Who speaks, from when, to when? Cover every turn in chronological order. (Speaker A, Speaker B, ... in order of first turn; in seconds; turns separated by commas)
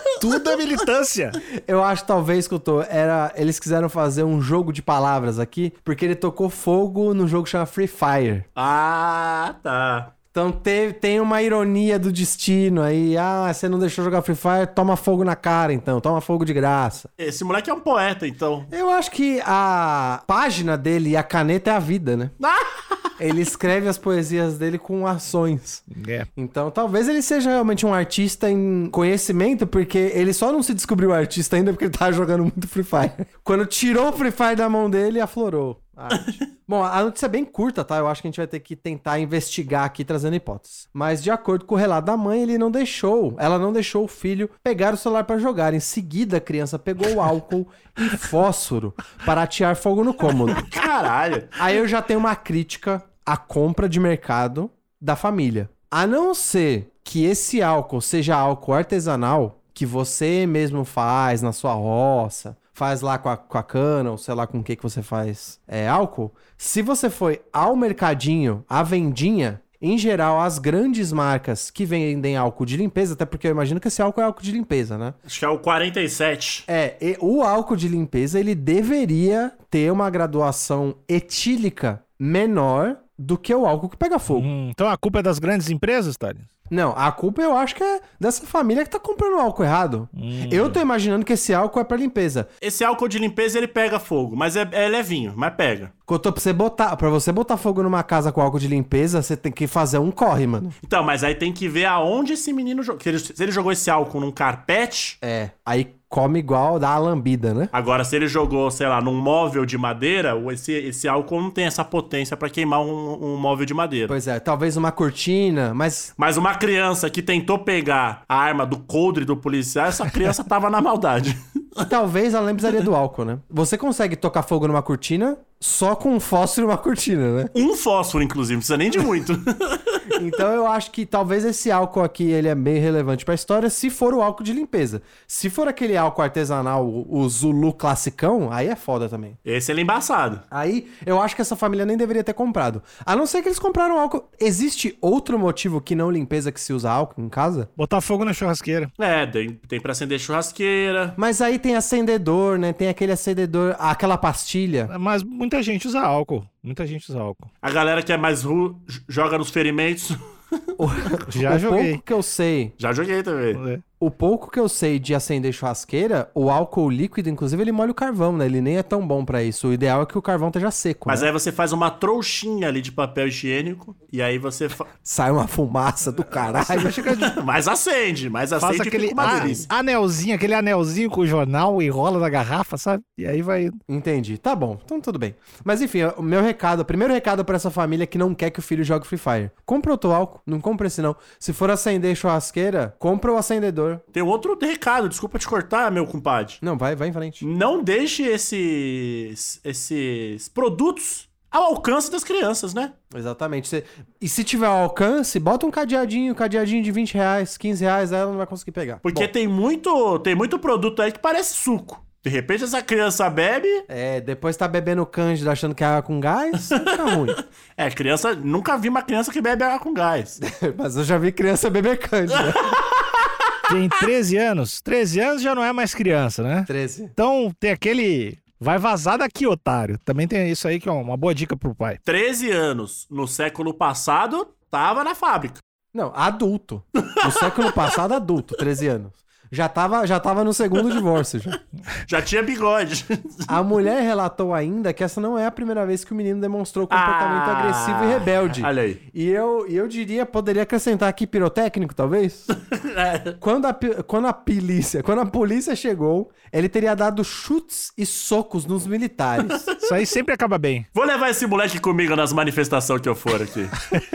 Speaker A: 0.2-1.4, Speaker B: 1.6-8.5, Speaker C: 8.6-10.1, Speaker B: 10.3-17.1, Speaker C: 17.2-18.7, Speaker B: 18.7-22.3, Speaker C: 22.4-23.0, Speaker B: 23.2-25.8, Speaker A: 25.9-26.3, Speaker B: 26.4-50.7, Speaker C: 36.1-36.4, Speaker C: 50.5-51.8, Speaker B: 51.6-75.2, Speaker C: 75.3-76.7, Speaker B: 76.7-84.5, Speaker A: 84.3-86.5, Speaker B: 86.7-92.5, Speaker A: 90.1-90.8, Speaker C: 92.6-95.9, Speaker B: 96.1-100.8, Speaker C: 100.8-105.2, Speaker B: 105.2-107.7, Speaker C: 107.7-114.2, Speaker B: 114.1-116.1, Speaker C: 116.2-121.9, Speaker B: 121.8-127.5, Speaker C: 127.5-130.0, Speaker B: 130.1-139.4, Speaker C: 139.4-140.4, Speaker B: 140.5-147.7, Speaker A: 147.8-148.9, Speaker C: 149.0-151.2, Speaker B: 151.2-154.9, Speaker A: 154.9-157.5, Speaker C: 157.6-160.2, Speaker B: 160.8-162.8, Speaker A: 161.3-162.0, Speaker C: 162.8-163.6, Speaker A: 163.5-163.8, Speaker B: 164.0-171.3, Speaker C: 171.1-174.9, Speaker B: 175.1-177.1, Speaker A: 176.4-177.3, Speaker C: 177.1-179.7, Speaker A: 178.6-183.8, Speaker B: 183.9-194.0, Speaker C: 194.1-196.6, Speaker B: 196.6-197.5, Speaker C: 197.4-202.9, Speaker B: 203.1-209.3, Speaker C: 209.0-213.8, Speaker B: 213.9-217.4, Speaker C: 216.7-220.4, Speaker B: 220.4-222.8, Speaker C: 222.4-222.8, Speaker A: 223.7-232.0, Speaker B: 226.7-227.2, Speaker C: 232.1-235.6, Speaker B: 235.9-241.6, Speaker C: 237.3-237.9, Speaker C: 242.1-243.5, Speaker B: 243.5-252.5, Speaker C: 246.9-249.0, Speaker C: 252.5-253.3, Speaker B: 253.4-259.7, Speaker A: 259.8-260.9, Speaker C: 260.9-263.8